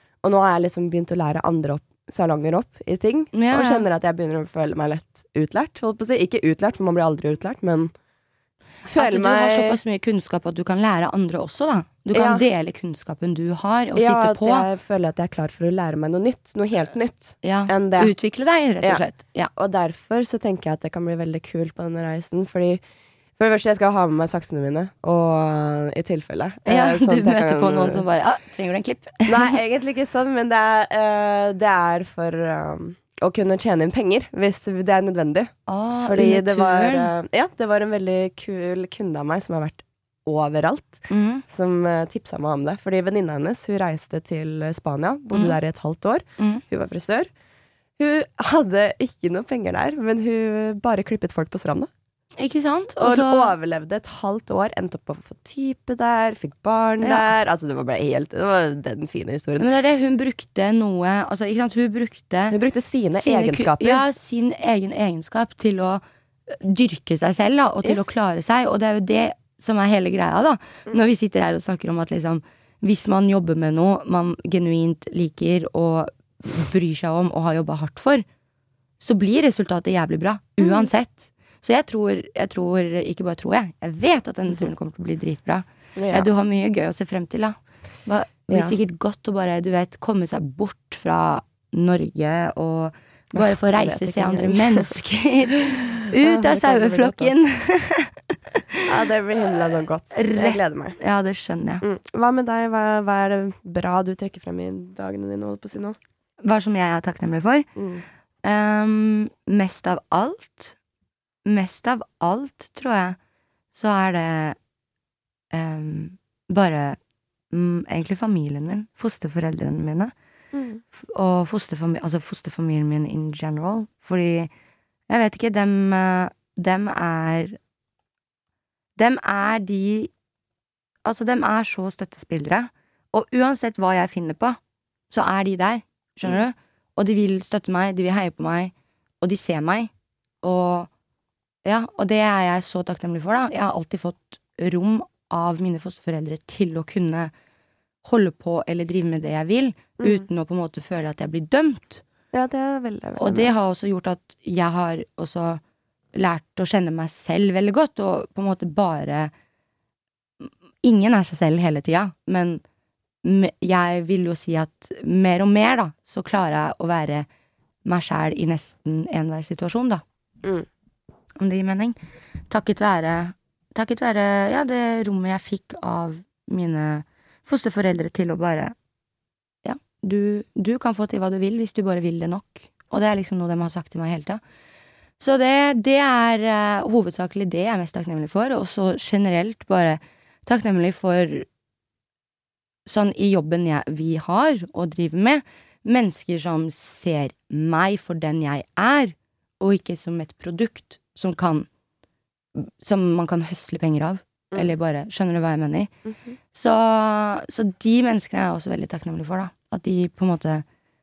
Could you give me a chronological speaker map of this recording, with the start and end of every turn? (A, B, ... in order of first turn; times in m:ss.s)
0:00.2-0:07.9 A
0:03.3-0:03.8 B
0:08.8-0:09.8 A
0:09.0-0:14.7 B
0:12.1-0:12.4 A
0:13.9-0:18.1 A
0:17.4-0:19.5 B
0:19.6-0:22.8 A
0:23.4-0:28.0 A
0:26.6-0:29.6 B
0:29.2-0:35.5 A
0:35.7-0:37.1 B
0:36.0-0:47.3 A
0:41.1-0:41.4 B
0:45.3-0:45.6 B
0:48.0-0:51.9 A
0:52.4-0:53.5 B
0:53.0-0:59.7 A
0:57.0-0:57.3 B
0:59.6-1:02.6 B
1:02.5-1:04.0 A
1:03.2-1:18.2 B
1:07.8-1:08.2 A
1:19.0-1:38.8 B
1:20.6-1:20.9 A
1:26.0-1:26.3 A
1:28.5-1:28.8 A
1:33.3-1:34.9 A
1:35.7-1:37.4 A
1:38.8-1:41.0 A
1:40.1-1:41.8 B
1:41.8-1:46.0 A
1:46.4-1:47.7 B
1:47.8-1:48.0 A
1:48.4-1:50.7 B
1:51.4-1:53.2 B
1:53.7-1:54.6 B
1:55.5-1:57.0 B
1:57.5-2:00.1 B
2:00.5-2:00.8 A
2:00.9-2:04.5 B
2:05.1-2:07.6 B
2:09.0-2:10.1 B
2:11.0-2:14.6 B
2:15.1-2:19.9 B
2:20.4-2:20.9 B
2:21.6-2:27.3 B
2:28.0-2:32.0 B
2:30.0-2:30.2 A
2:32.3-2:33.5 A
2:33.2-2:35.6 B
2:36.1-2:39.3 B
2:40.4-2:42.6 B
2:43.2-2:47.3 B
2:47.8-2:50.0 B
2:51.4-2:52.0 B
2:52.5-2:58.7 B
2:59.6-3:04.4 B
3:05.2-3:11.5 B
3:12.9-3:21.7 B
3:22.6-3:25.9 B
3:26.1-3:26.3 A
3:26.5-3:30.6 B